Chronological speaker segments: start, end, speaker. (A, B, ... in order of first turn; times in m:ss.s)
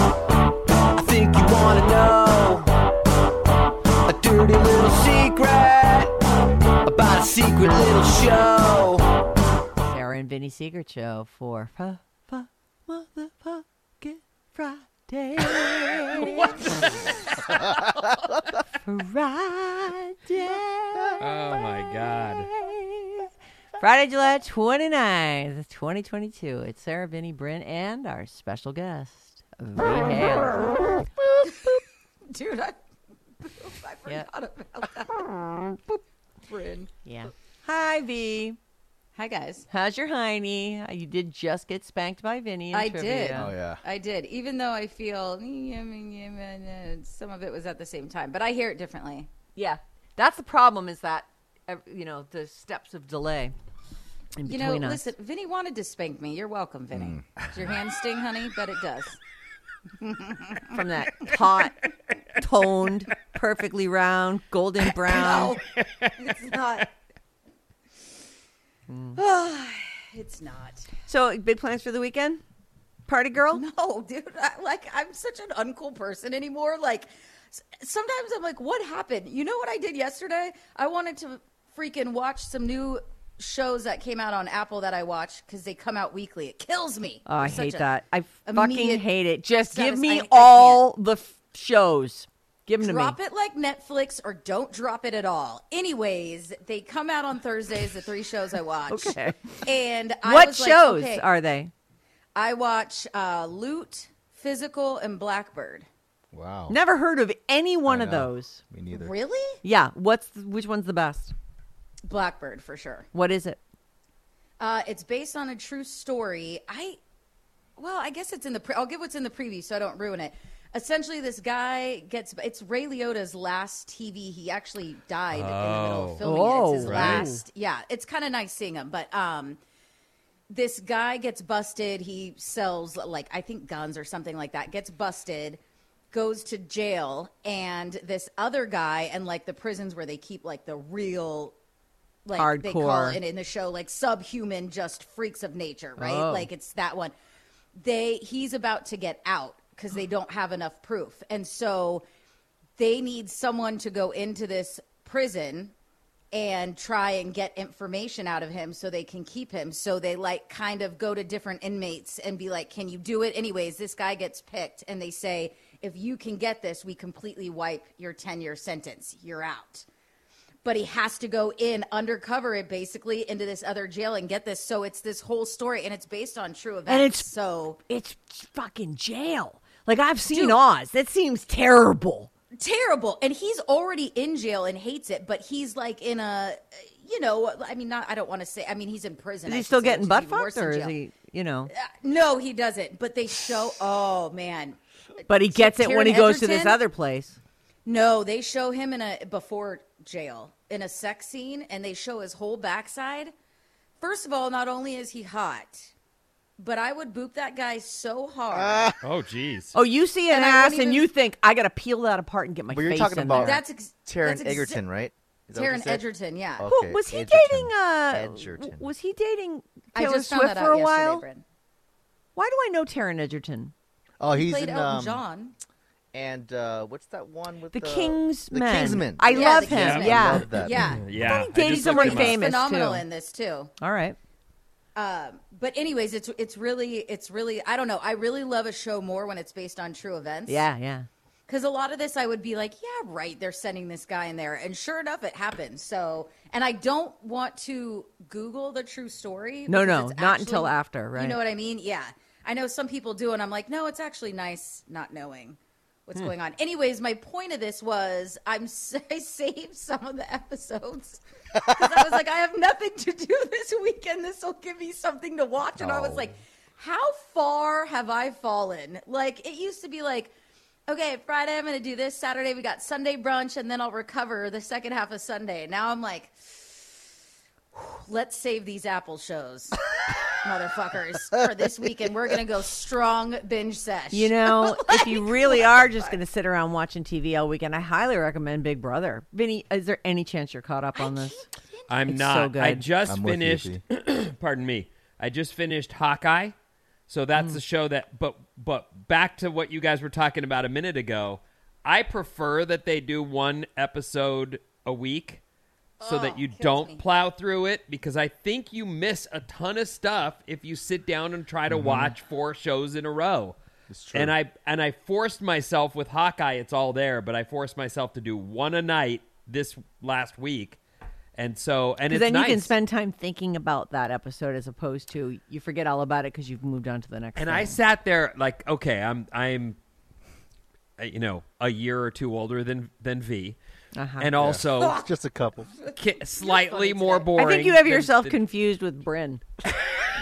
0:00.9-0:02.7 A
0:04.1-0:06.2 A
0:06.8-0:09.1 A
0:09.8-0:16.8 B
0:16.2-0:17.2 C
0:18.8-0:23.3 B
0:21.2-0:22.5 C
0:23.8-0:30.8 B
0:31.4-0:32.8 D
0:33.4-0:36.9 D
0:37.0-0:38.6 B
0:39.2-0:39.7 D
0:39.7-0:43.5 B
0:42.7-0:49.3 D
0:43.3-0:43.8 E
0:49.6-0:53.5 B
0:54.4-0:55.1 B
0:54.4-0:59.2 D
0:56.9-0:57.7 E
1:00.0-1:01.5 D
1:00.7-1:01.8 B
1:02.4-1:05.6 B
1:05.0-1:06.9 D
1:05.8-1:06.1 C
1:08.9-1:09.2 B
1:09.2-1:10.9 D
1:11.1-1:12.4 B
1:13.1-1:13.6 B
1:13.5-1:27.9 D
1:27.3-1:33.2 B
1:28.5-1:29.0 D
1:29.7-1:30.8 D
1:32.8-1:41.3 D
1:38.9-1:39.6 B
1:40.2-1:41.7 B
1:42.4-1:45.9 D
1:46.3-1:46.8 E
1:46.7-1:48.6 B
1:47.9-1:49.1 E
1:48.9-1:49.6 D
1:49.6-1:51.3 B
1:52.1-1:53.1 D
1:53.1-1:53.6 B
1:54.6-1:57.0 D
1:57.8-2:09.6 D
2:05.3-2:06.2 C
2:06.2-2:07.4 B
2:06.8-2:07.3 C
2:10.5-2:15.6 D
2:16.1-2:21.5 D
2:22.2-2:27.1 D
2:22.4-2:23.2 B
2:26.0-2:26.5 B
2:27.8-2:32.0 D
2:32.8-2:35.7 D
2:36.3-2:49.9 D
2:50.6-2:57.8 D
2:56.9-2:57.3 B
2:57.9-3:02.3 B
3:00.3-3:00.6 D
3:02.6-3:11.0 D
3:09.5-3:11.7 B
3:11.7-3:16.8 D
3:15.3-3:17.4 B
3:17.9-3:23.3 D
3:24.0-3:25.9 D
3:26.6-3:28.9 D
3:28.5-3:29.0 E
3:29.0-3:29.8 C
3:29.7-3:33.6 B
3:30.3-3:31.1 D
3:32.7-3:36.0 E
3:33.4-3:34.8 D
3:35.5-3:36.7 D
3:36.6-3:38.9 E
3:36.6-3:41.2 B
3:39.9-3:41.4 D
3:42.4-3:43.7 B
3:44.2-3:45.2 E
3:44.3-3:45.6 D
3:46.1-3:51.1 E
3:47.7-3:50.5 B
3:49.3-3:51.0 D
3:50.6-3:52.4 C
3:51.1-3:53.0 B
3:51.6-3:53.7 D
3:53.8-3:54.2 B
3:55.0-4:00.7 D
4:00.5-4:01.1 B
4:01.5-4:30.3 D
4:09.7-4:11.4 B
4:25.8-4:26.3 C
4:30.9-4:36.9 D
4:37.7-4:46.1 D
4:44.1-4:51.4 B
4:51.0-4:51.9 D
4:51.9-4:56.5 C
4:52.1-4:52.8 B
4:53.1-4:53.8 E
4:57.1-5:05.4 C
5:06.0-5:07.0 D
5:06.0-5:13.6 C
5:11.7-5:12.1 E
5:13.9-5:14.3 E
5:14.1-5:20.8 C
5:21.4-5:22.7 C
5:22.1-5:27.8 B
5:27.4-5:29.8 C
5:31.0-5:33.6 C
5:34.0-5:34.3 B
5:34.2-5:35.1 C
5:34.4-5:35.7 E
5:34.8-5:35.1 D
5:35.8-5:37.3 D
5:36.0-5:38.4 C
5:37.4-5:39.4 B